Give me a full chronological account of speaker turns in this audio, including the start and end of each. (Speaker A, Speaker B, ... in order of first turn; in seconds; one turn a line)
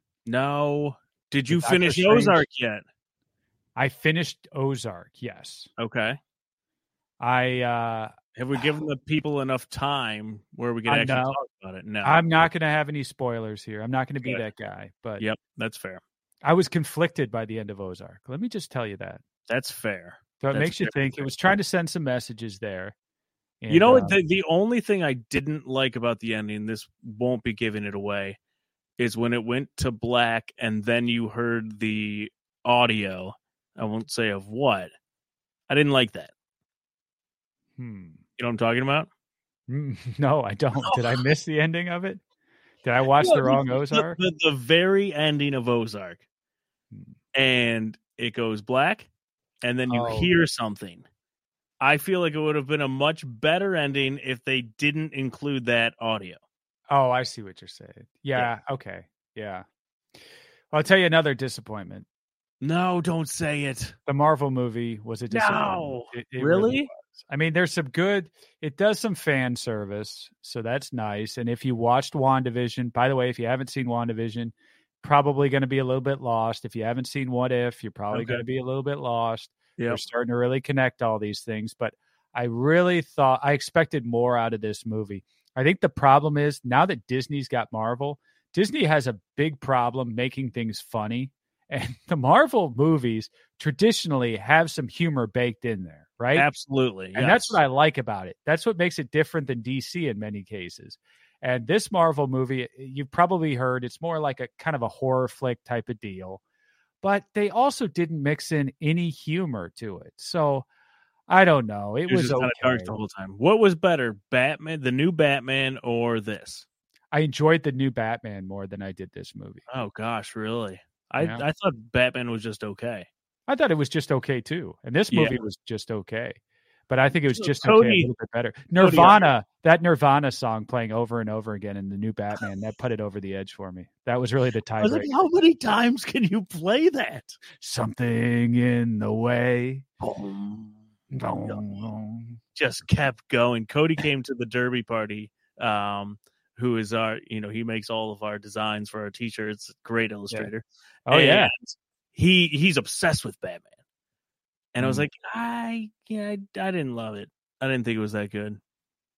Speaker A: 0.2-2.8
Speaker B: 1.5-2.4
Speaker B: 3.8-5.7
Speaker A: 5.8-6.2
Speaker B: 7.2-8.6
Speaker A: 8.3-12.5
Speaker B: 10.9-11.4
Speaker B: 12.0-15.2
Speaker A: 15.2-16.0
Speaker B: 16.4-19.2
Speaker A: 19.5-21.5
Speaker B: 20.4-22.9
Speaker B: 23.6-24.2
Speaker A: 23.7-28.4
Speaker A: 29.0-34.9
Speaker A: 35.7-36.3
Speaker B: 37.8-38.2
Speaker A: 38.4-39.1
Speaker B: 39.7-42.2
Speaker B: 42.8-44.2
Speaker A: 43.2-46.2
Speaker A: 47.3-49.1
Speaker A: 49.6-51.0
Speaker B: 49.9-50.3
Speaker A: 51.8-56.4
Speaker B: 56.9-59.6
Speaker B: 60.7-62.0
Speaker A: 62.6-63.9
Speaker B: 64.1-96.5
Speaker A: 65.3-66.9
Speaker A: 78.1-78.4
Speaker A: 96.3-97.6
Speaker B: 97.1-106.4
Speaker B: 107.0-110.6
Speaker B: 111.3-112.9
Speaker A: 112.1-116.6
Speaker B: 117.1-119.6
Speaker A: 119.7-123.1
Speaker B: 121.2-121.4
Speaker B: 123.5-135.2
Speaker A: 125.1-125.4
Speaker A: 127.3-128.1
Speaker A: 128.8-129.3
Speaker A: 134.8-137.4
Speaker B: 137.6-139.8
Speaker A: 140.0-141.6
Speaker B: 141.1-142.4
Speaker A: 142.5-153.7
Speaker B: 151.1-151.5
Speaker A: 154.7-158.6
Speaker B: 154.8-155.1